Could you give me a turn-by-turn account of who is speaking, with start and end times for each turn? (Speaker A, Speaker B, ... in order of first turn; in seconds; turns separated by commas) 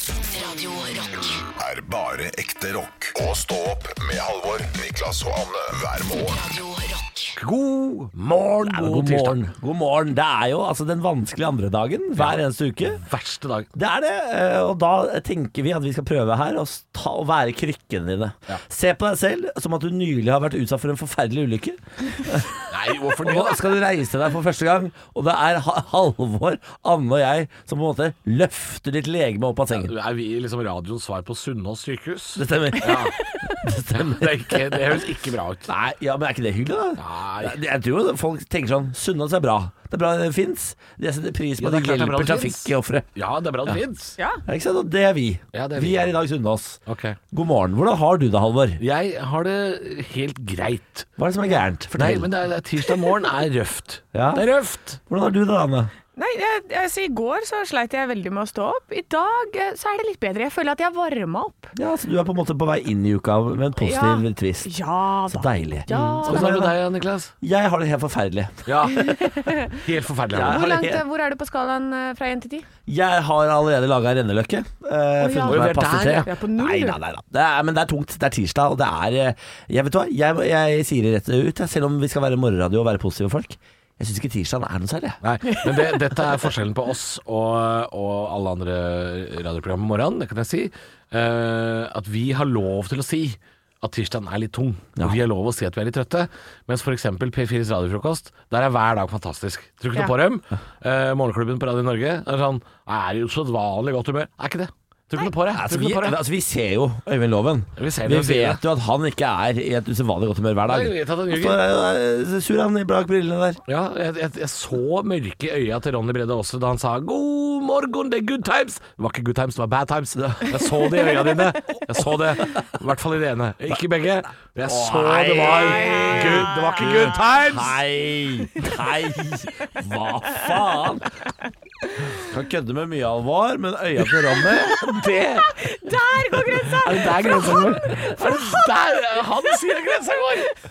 Speaker A: 0.2-1.5, Speaker B: 1.6-6.4, Speaker A: 6.2-7.4, Speaker C: 7.4-9.4, Speaker D: 8.6-13.0, Speaker C: 12.2-13.7, Speaker D: 13.7-22.7, Speaker C: 22.7-23.8, Speaker D: 23.2-29.9, Speaker C: 29.8-33.2, Speaker D: 32.4-35.0, Speaker E: 33.2-33.6, Speaker C: 34.0-35.7, Speaker D: 35.7-43.1, Speaker C: 37.0-37.6, Speaker C: 41.6-44.2, Speaker E: 44.2-44.4, Speaker D: 44.5-46.8, Speaker C: 45.5-46.1, Speaker C: 46.9-47.2, Speaker D: 47.3-48.8, Speaker C: 48.8-51.1, Speaker D: 51.2-52.3, Speaker C: 51.9-55.0, Speaker D: 54.1-54.5, Speaker D: 55.1-55.9, Speaker E: 56.2-61.7, Speaker D: 61.8-64.7, Speaker E: 63.8-66.6, Speaker D: 65.3-66.8, Speaker C: 65.9-67.3, Speaker D: 67.4-69.1, Speaker C: 68.7-69.2, Speaker E: 68.9-69.8, Speaker C: 69.7-70.7, Speaker D: 70.3-71.0, Speaker E: 70.4-72.7, Speaker D: 72.9-85.2, Speaker E: 75.2-77.0, Speaker C: 75.5-76.3, Speaker C: 85.2-106.2, Speaker E: 85.5-86.0, Speaker D: 105.5-113.6, Speaker C: 107.8-108.6, Speaker C: 110.7-111.6, Speaker C: 113.7-127.8, Speaker D: 120.2-120.6, Speaker D: 124.6-131.1, Speaker E: 125.4-127.2, Speaker D: 132.2-134.9, Speaker C: 134.7-135.5, Speaker E: 134.9-139.2, Speaker C: 136.7-140.5